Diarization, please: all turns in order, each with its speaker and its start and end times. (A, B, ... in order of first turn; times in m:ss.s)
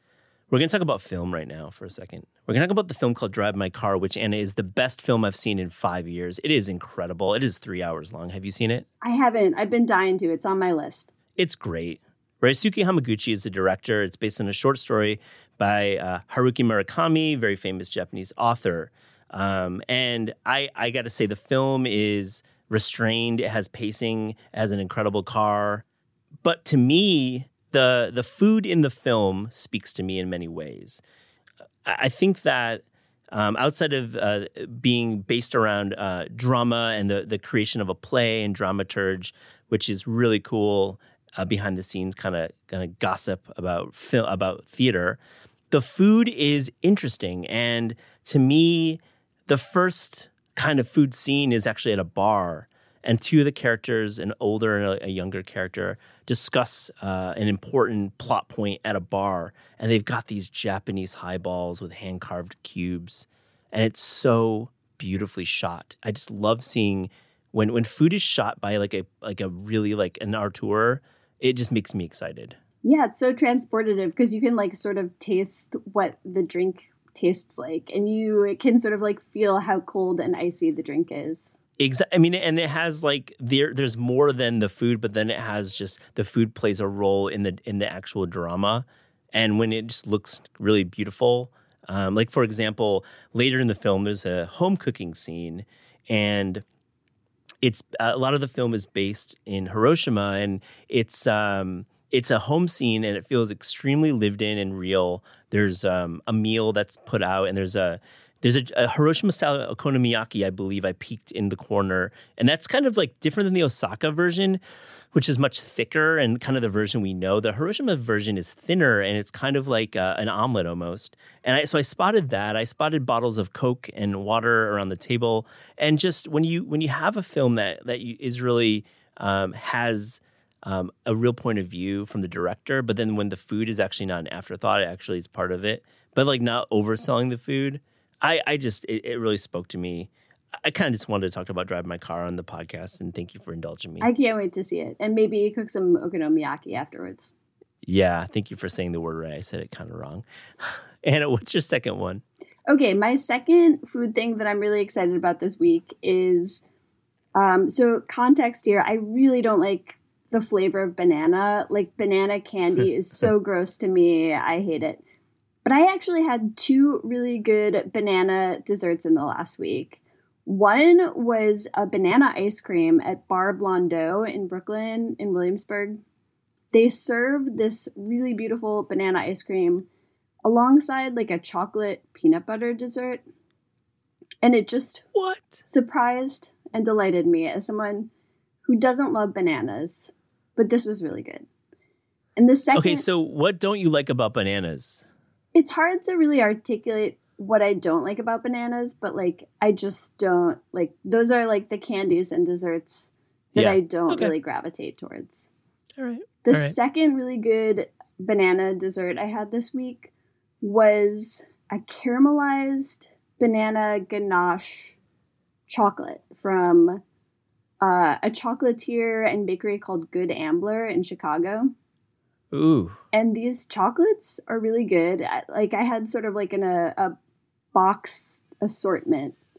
0:00.5-0:08.8 A
0:09.0-0:11.1 B
0:11.4-0:25.8 A
0:26.4-0:31.0 A
0:31.8-0:45.2 A
0:45.7-1:12.6 A
1:12.8-1:21.5 B
1:21.8-1:36.6 A
1:37.6-1:54.6 A
1:55.1-2:20.1 A
2:20.6-2:24.1 A
2:24.0-2:27.3 B
2:27.8-2:32.2 A
2:32.7-2:36.6 B
2:37.4-2:45.0 B
2:45.6-2:56.0 B
2:56.7-2:59.9 B
3:00.4-3:03.2 B
3:04.4-3:05.0 B
3:05.2-3:05.7 A
3:05.7-3:08.1 B
3:08.6-3:11.5 B
3:12.4-3:13.0 B
3:12.7-3:15.1 A
3:15.5-3:25.4 B
3:23.5-3:24.3 A
3:26.0-3:26.8 A
3:26.4-3:30.1 B
3:30.6-3:35.0 B
3:35.7-3:37.0 B
3:37.8-3:41.7 B
3:42.5-3:43.0 A
3:43.1-3:47.2 B
3:47.7-3:49.4 B